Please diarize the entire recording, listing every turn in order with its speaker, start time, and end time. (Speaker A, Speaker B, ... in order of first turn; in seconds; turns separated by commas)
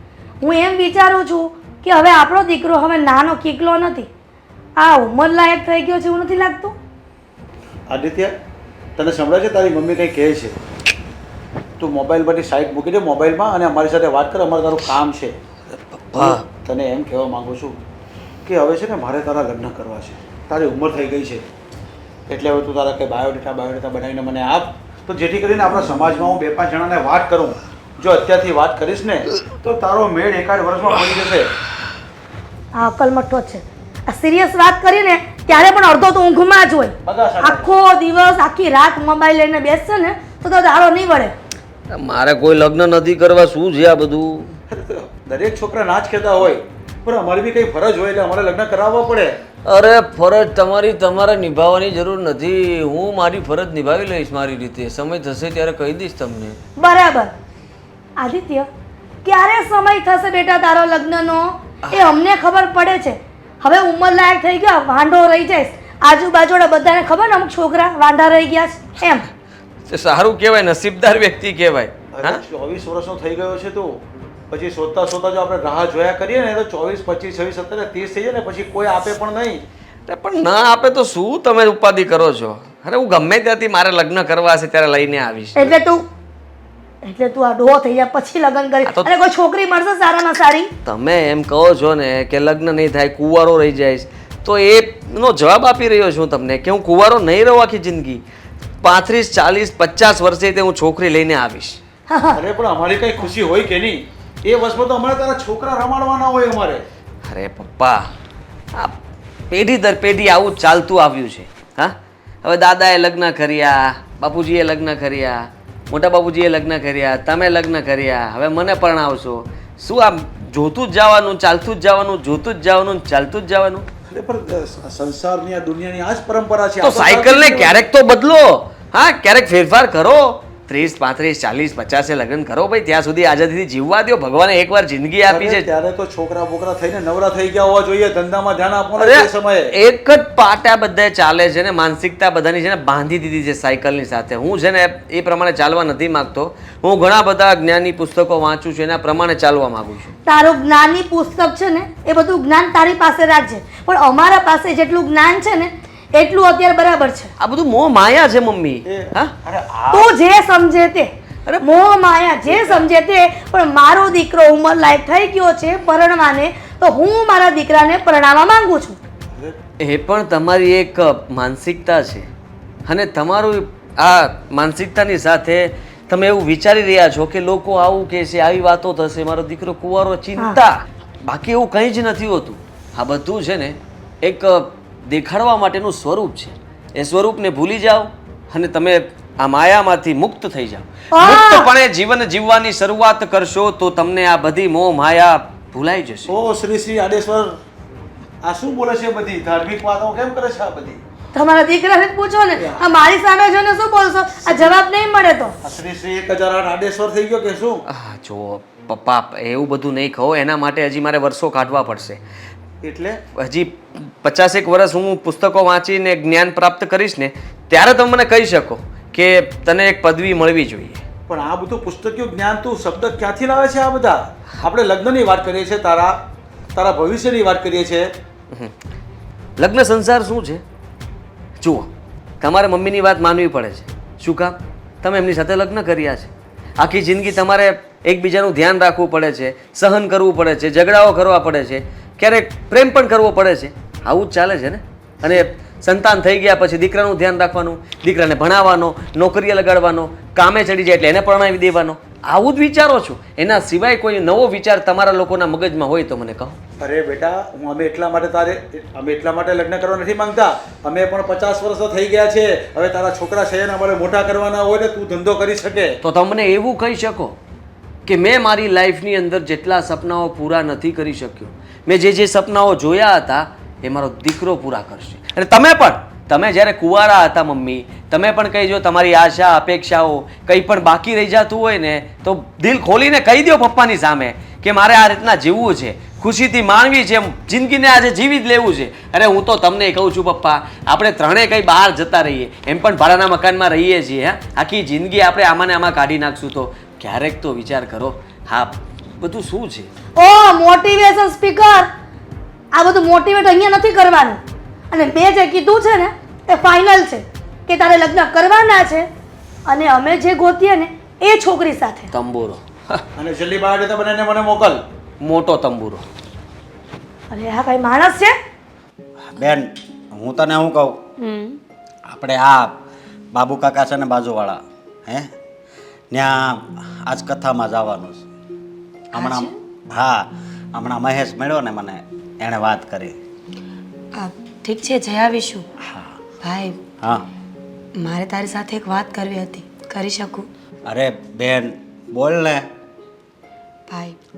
Speaker A: 0.4-4.1, Speaker A: 4.8-6.8, Speaker B: 7.9-8.3, Speaker B: 9.0-10.6, Speaker B: 11.8-15.3, Speaker C: 16.1-16.4, Speaker B: 16.2-17.8, Speaker B: 18.4-21.4, Speaker B: 22.3-31.5, Speaker A: 32.7-41.3, Speaker B: 37.0-37.7, Speaker C: 41.9-44.5, Speaker B: 44.7-49.4, Speaker C: 49.6-56.6, Speaker A: 56.8-57.3, Speaker A: 58.2-58.7, Speaker A: 59.2-69.3, Speaker C: 61.8-62.2, Speaker C: 69.9-72.4, Speaker B: 72.1-74.0, Speaker B: 74.5-79.6, Speaker C: 80.1-85.7, Speaker A: 85.6-86.1, Speaker A: 87.0-90.7, Speaker C: 88.8-89.1, Speaker C: 90.8-98.2, Speaker C: 98.8-101.8, Speaker A: 102.1-102.4, Speaker B: 102.4-106.8, Speaker C: 107.2-108.1, Speaker C: 109.5-123.9, Speaker B: 124.1-127.8, Speaker C: 126.8-135.7, Speaker B: 135.3-139.8, Speaker C: 139.0-150.1, Speaker A: 150.3-157.3, Speaker C: 157.4-159.3, Speaker B: 158.9-160.1, Speaker A: 159.9-169.0, Speaker C: 161.5-161.7, Speaker B: 162.4-162.8, Speaker C: 169.8-172.3, Speaker C: 172.9-196.3, Speaker A: 191.1-191.7, Speaker B: 196.3-197.6, Speaker B: 198.4-201.0, Speaker A: 201.3-205.6, Speaker B: 202.6-202.9, Speaker B: 205.6-207.8, Speaker C: 207.9-212.2, Speaker B: 212.8-213.2, Speaker C: 213.3-221.1, Speaker B: 221.3-226.2, Speaker B: 226.8-228.1, Speaker C: 229.6-230.6, Speaker C: 231.6-231.9, Speaker C: 232.4-256.6, Speaker B: 256.8-266.0, Speaker C: 266.0-267.4, Speaker C: 268.1-299.9, Speaker A: 300.2-301.9, Speaker A: 302.7-304.4, Speaker A: 304.9-309.1, Speaker A: 309.7-312.1, Speaker C: 312.1-313.0, Speaker B: 313.2-314.8, Speaker C: 315.2-316.1, Speaker A: 317.3-318.4, Speaker D: 319.3-321.0, Speaker E: 321.2-321.6, Speaker D: 322.1-322.8, Speaker D: 323.3-325.3, Speaker D: 326.1-328.2, Speaker D: 329.1-333.2, Speaker E: 329.1-329.5, Speaker E: 334.1-335.7, Speaker D: 335.8-336.2, Speaker E: 336.4-336.8, Speaker D: 337.0-337.3, Speaker E: 338.0-340.5, Speaker D: 340.9-342.7, Speaker E: 343.9-344.2